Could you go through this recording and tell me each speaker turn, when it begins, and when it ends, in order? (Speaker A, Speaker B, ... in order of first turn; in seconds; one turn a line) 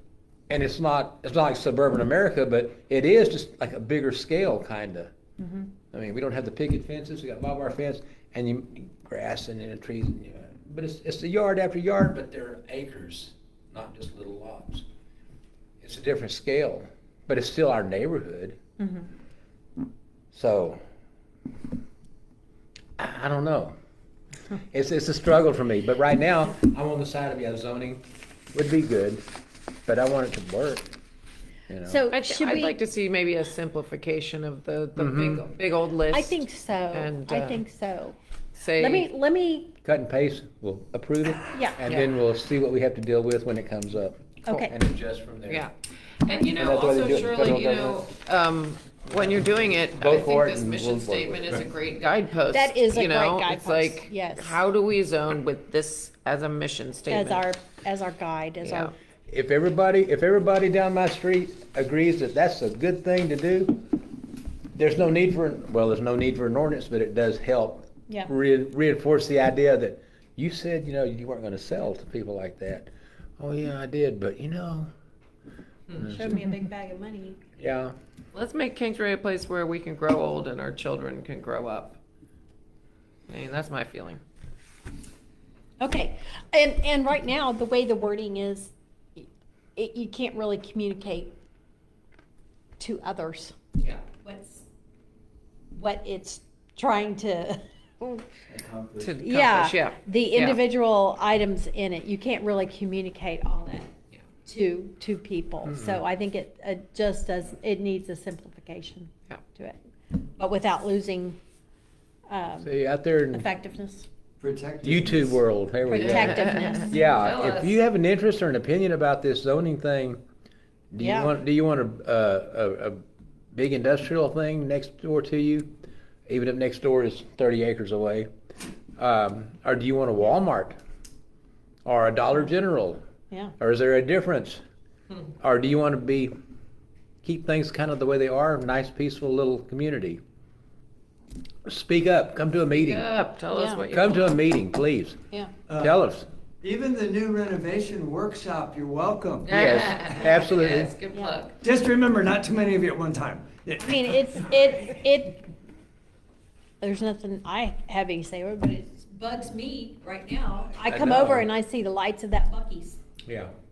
Speaker A: 0.5-5.1
Speaker A: 5.9-14.8
Speaker A: 15.8-18.6
Speaker A: 20.3-20.8
Speaker A: 23.0-23.8
Speaker A: 24.7-29.2
Speaker A: 29.9-30.9
Speaker A: 31.7-32.0
Speaker B: 31.8-32.8
Speaker C: 32.1-37.6
Speaker A: 35.0-35.4
Speaker B: 36.1-38.2
Speaker C: 38.6-39.1
Speaker B: 38.8-39.8
Speaker A: 39.8-45.6
Speaker B: 41.5-41.8
Speaker B: 44.5-44.7
Speaker C: 45.5-57.5
Speaker A: 46.5-48.0
Speaker A: 50.0-51.6
Speaker B: 52.5-54.6
Speaker B: 57.1-58.9
Speaker C: 58.6-58.9
Speaker A: 59.3-63.8
Speaker A: 64.8-74.9
Speaker A: 76.0-76.5
Speaker B: 76.1-77.4
Speaker A: 77.6-77.9
Speaker C: 78.3-82.0
Speaker C: 83.3-84.2
Speaker B: 85.8-91.3
Speaker B: 92.8-93.6
Speaker B: 94.2-94.7
Speaker B: 95.7-98.3
Speaker D: 98.5-99.1
Speaker C: 99.0-100.7
Speaker B: 99.2-103.9
Speaker B: 104.5-111.4
Speaker A: 105.7-106.0
Speaker B: 112.3-112.7
Speaker A: 112.6-113.5
Speaker B: 113.3-114.1
Speaker D: 114.4-115.4
Speaker A: 114.8-120.2
Speaker B: 115.9-117.0
Speaker C: 116.0-117.8
Speaker A: 120.9-123.0
Speaker B: 121.0-121.3
Speaker A: 123.5-125.7
Speaker A: 126.3-128.3
Speaker A: 129.0-130.8
Speaker A: 131.8-133.0
Speaker A: 133.6-134.6
Speaker A: 135.4-136.3
Speaker A: 137.2-140.2
Speaker A: 141.7-143.1
Speaker C: 142.8-144.2
Speaker B: 143.5-143.8
Speaker A: 143.9-145.2
Speaker D: 145.7-145.9
Speaker A: 145.8-146.3
Speaker D: 146.6-149.5
Speaker C: 149.5-151.6
Speaker A: 149.5-150.9
Speaker D: 151.6-153.9
Speaker B: 153.8-155.4
Speaker B: 156.8-163.0
Speaker A: 160.8-161.5
Speaker A: 163.3-163.5